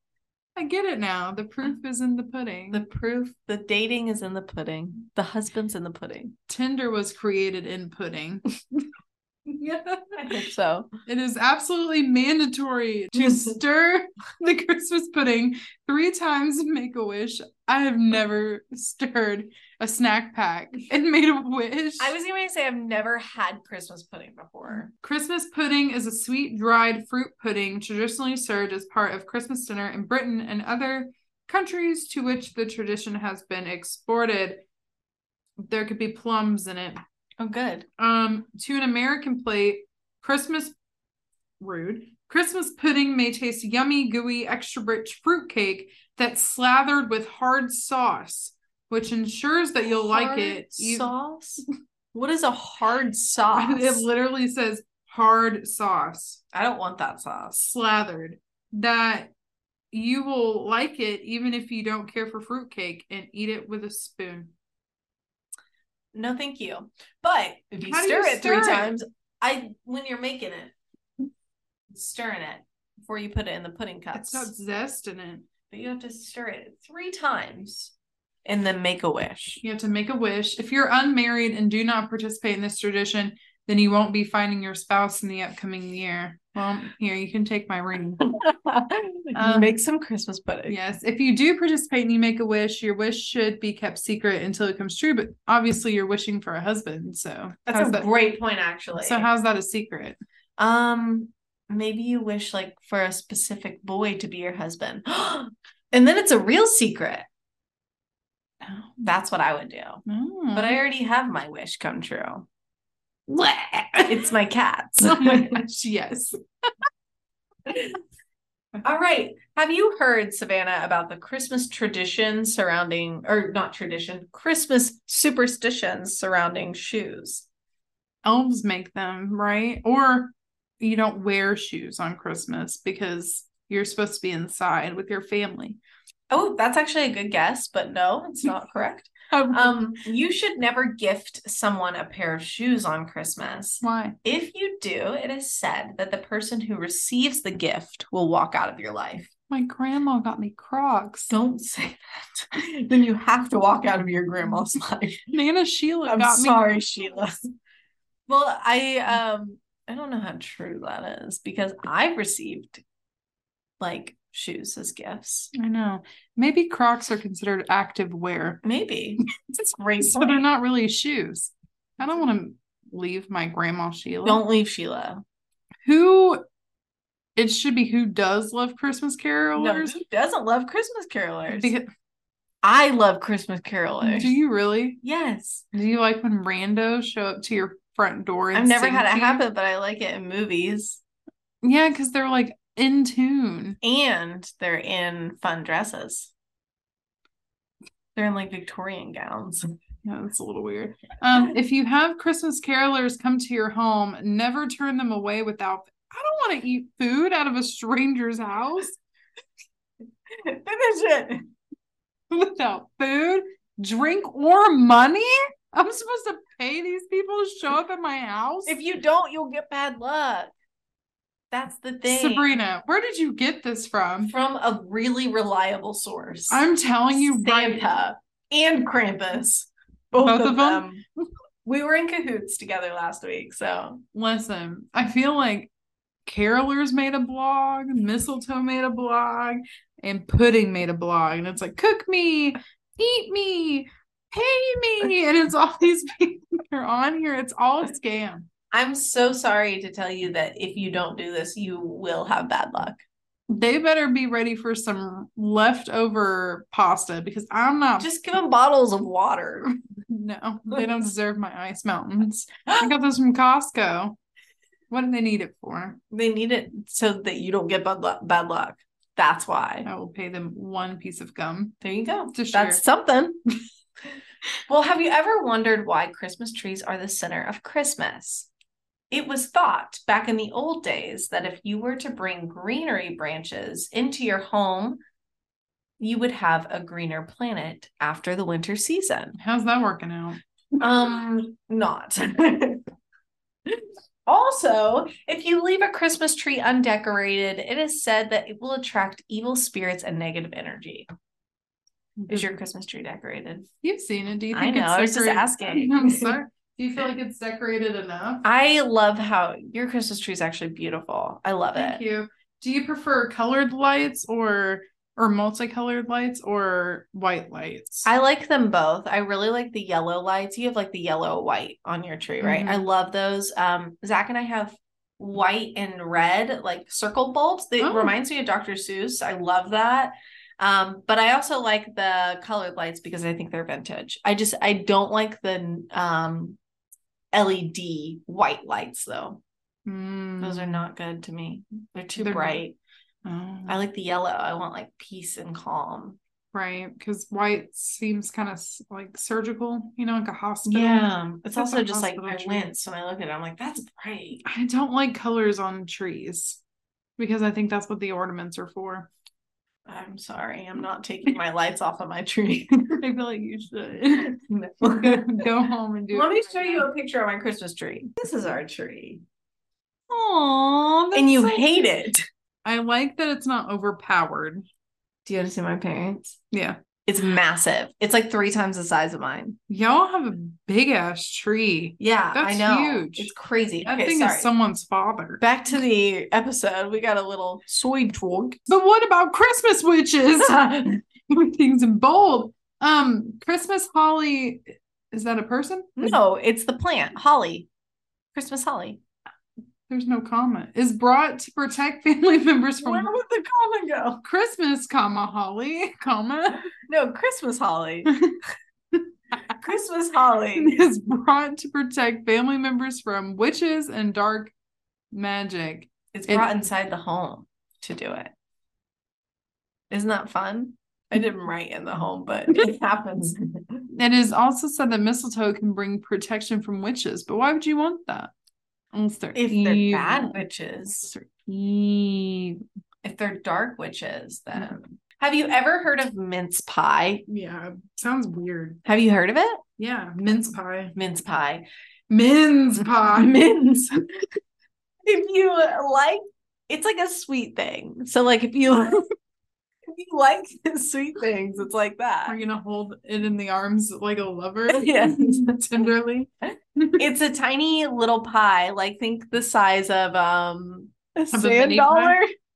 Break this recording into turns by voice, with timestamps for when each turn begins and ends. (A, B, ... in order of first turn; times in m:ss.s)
0:00.6-0:02.8 A
0:02.7-0:06.3 B
0:06.5-0:08.8 A
0:09.4-0:10.4 A
0:10.2-0:10.9 B
0:11.0-0:22.1 A
0:13.2-0:13.5 B
0:22.0-0:24.9 B
0:25.0-0:34.6 A
0:35.6-0:37.0 A
0:37.4-0:37.8 B
0:38.0-0:40.8 A
0:41.6-0:51.1 A
0:49.9-0:54.0 B
0:53.5-0:56.4 A
0:56.5-0:57.7 B
0:57.6-0:59.3 A
0:59.9-1:04.5 A
1:06.1-1:10.7 B
1:07.8-1:08.9 A
1:11.9-1:14.5 B
1:14.1-1:15.4 A
1:15.7-1:17.9 B
1:18.4-1:19.6 B
1:19.6-1:28.2 A
1:28.3-1:30.8 B
1:29.3-1:29.8 A
1:30.7-1:38.1 A
1:37.7-1:39.3 B
1:39.0-1:40.2 A
1:40.6-1:47.2 B
1:48.6-1:49.0 A
1:49.0-1:52.4 B
1:50.0-1:50.8 A
1:53.3-1:54.3 A
1:54.1-1:55.6 B
1:55.0-1:56.7 A
1:57.7-1:57.9 B
1:58.8-2:07.4 B
2:08.2-2:15.8 A
2:16.3-2:29.3 B
2:19.3-2:19.8 A
2:23.8-2:24.2 A
2:29.5-2:31.3 A
2:31.3-2:35.3 B
2:35.3-2:36.6 A
2:36.0-2:37.3 B
2:38.3-2:42.8 B
2:43.8-2:45.5 B
2:45.5-2:48.6 A
2:48.6-2:49.2 B
2:49.4-2:54.4 A
2:49.7-2:50.4 B
2:54.2-2:55.2 B
2:55.8-2:56.4 A
2:57.4-3:00.0 A
2:59.6-3:01.7 B
3:01.5-3:01.9 A
3:02.6-3:04.3 B
3:04.0-3:05.0 A
3:05.0-3:05.6 B
3:05.7-3:09.4 A
3:08.5-3:11.0 B
3:11.6-3:13.8 A
3:13.8-3:16.3 B
3:18.2-3:19.7 B
3:20.0-3:29.0 A
3:30.3-3:31.5 B
3:32.3-3:38.8 A
3:38.6-3:40.5 B
3:41.5-3:42.5 B
3:42.0-3:44.3 A
3:44.2-3:51.0 B
3:46.5-3:47.8 A
3:50.2-3:50.8 A
3:51.6-3:54.0 B
3:54.1-3:55.7 A
3:56.2-4:08.5 A
4:08.7-4:13.0 B
4:13.5-4:18.1 A
4:18.0-4:19.7 B
4:20.1-4:24.2 A
4:24.9-4:26.0 A
4:26.1-4:29.9 B
4:29.8-4:31.8 A
4:31.8-4:33.4 B
4:32.3-4:32.8 A
4:34.7-4:38.5 B
4:39.1-4:45.0 B
4:46.0-4:49.4 B
4:49.4-4:50.4 A
4:50.8-4:52.8 B
4:53.7-5:01.1 B
5:02.2-5:02.5 A
5:02.3-5:03.7 B
5:03.8-5:08.4 A
5:04.5-5:06.4 B
5:08.4-5:12.0 B
5:11.8-5:18.1 A
5:18.0-5:36.6 B
5:22.4-5:22.8 A
5:27.8-5:28.1 A
5:37.3-5:39.4 B
5:39.8-5:40.8 A
5:40.4-5:42.8 B
5:42.2-5:42.6 A
5:43.2-5:43.8 A
5:43.7-5:46.2 B
5:46.5-5:52.7 A
5:50.6-5:54.4 B
5:54.4-5:56.6 A
5:57.2-5:59.1 A
5:59.9-6:03.0 B
6:03.0-6:06.9 A
6:04.2-6:05.5 B
6:06.1-6:09.2 B
6:10.1-6:11.9 A
6:11.1-6:12.2 B
6:12.6-6:14.6 A
6:15.2-6:16.4 B
6:16.5-6:16.8 A
6:17.0-6:19.6 B
6:19.7-6:25.4 A
6:22.0-6:24.5 B
6:25.4-6:28.7 B
6:28.7-6:36.2 A
6:30.4-6:30.9 B
6:36.0-6:37.7 B
6:38.3-6:39.0 B
6:39.9-6:43.1 A
6:42.8-6:44.2 B
6:44.2-6:46.6 A
6:46.9-6:48.1 B
6:48.1-6:48.4 A
6:48.9-6:49.6 A
6:49.6-6:50.7 B
6:50.5-6:54.5 A
6:55.1-6:56.5 A
6:56.1-6:58.3 B
6:59.9-7:03.8 B
7:03.9-7:08.3 A
7:08.9-7:10.4 A
7:09.3-7:11.1 B
7:11.1-7:12.6 A
7:13.0-7:17.2 B
7:17.3-7:18.8 A
7:18.8-7:19.6 B
7:19.8-7:20.9 A
7:20.9-7:21.6 B
7:22.1-7:23.4 A
7:23.1-7:24.0 B
7:25.0-7:29.0 B
7:29.9-7:32.4 B
7:32.3-7:37.0 A
7:34.7-7:35.6 B
7:37.0-7:42.3 B
7:41.3-7:42.2 A